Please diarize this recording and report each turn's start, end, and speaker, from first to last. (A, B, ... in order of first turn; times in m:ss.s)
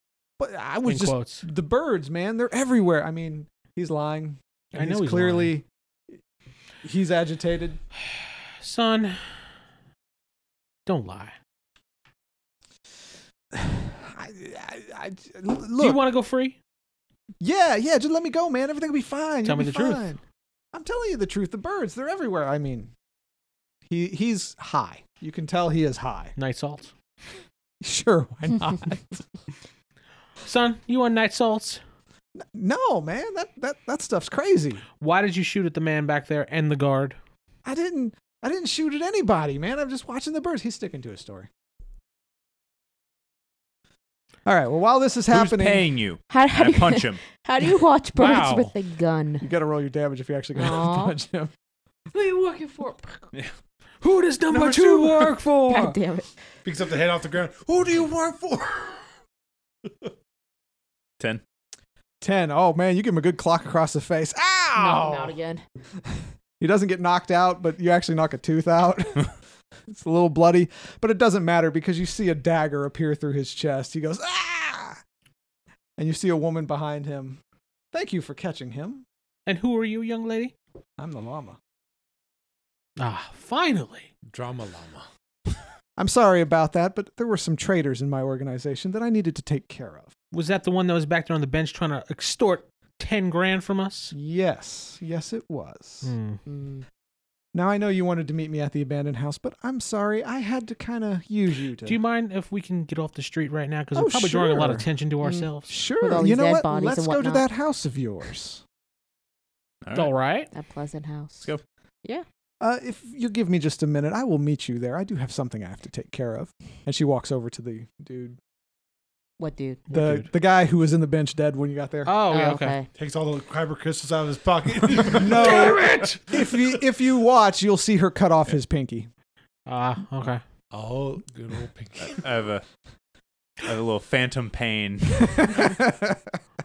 0:00.4-0:05.6 A
0:00.9-0:01.5 B
0:04.8-0:05.6 B
0:06.8-0:07.8 A
0:08.6-0:09.3 B
0:10.9-0:11.4 B
0:13.5-0:16.0 A
0:15.8-0:16.6 B
0:17.4-0:20.2 A
0:19.4-0:20.0 B
0:20.7-0:22.9 A
0:23.9-0:26.3 A
0:26.4-0:26.9 B
0:27.8-0:29.2 A
0:30.4-0:31.8 B
0:32.4-0:34.8 A
0:35.0-0:37.2 B
0:37.6-0:41.5 A
0:44.5-0:45.9 A
0:45.3-0:47.2 C
0:46.3-0:49.5 D
0:48.2-0:48.8 B
0:49.4-0:51.5 A
0:50.6-0:51.2 D
0:52.1-0:53.3 D
0:54.0-0:56.0 B
0:54.5-0:55.3 A
0:55.7-0:56.3 D
0:56.6-0:59.0 E
1:02.2-1:05.3 A
1:04.8-1:05.6 D
1:06.6-1:09.3 A
1:09.9-1:15.0 A
1:16.0-1:17.4 A
1:17.9-1:19.0 A
1:19.5-1:20.5 B
1:21.0-1:21.6 A
1:23.0-1:24.1 B
1:24.3-1:25.1 E
1:26.0-1:30.1 A
1:30.3-1:34.2 B
1:34.1-1:36.1 A
1:36.0-1:36.4 B
1:36.5-1:36.8 D
1:37.5-1:42.0 A
1:41.9-1:45.7 B
1:44.0-1:44.9 A
1:45.2-1:47.4 D
1:45.7-1:48.6 A
1:49.8-1:50.1 C
1:49.9-1:50.5 B
1:50.5-1:51.5 D
1:52.6-1:58.4 A
1:59.4-1:59.8 D
1:59.9-2:00.3 B
1:59.9-2:02.1 A
2:02.0-2:02.8 B
2:02.3-2:02.9 D
2:03.0-2:05.9 E
2:05.1-2:09.1 A
2:05.1-2:06.3 B
2:09.7-2:10.4 B
2:10.7-2:12.2 E
2:12.0-2:12.6 C
2:13.6-2:15.7 C
2:15.4-2:16.2 A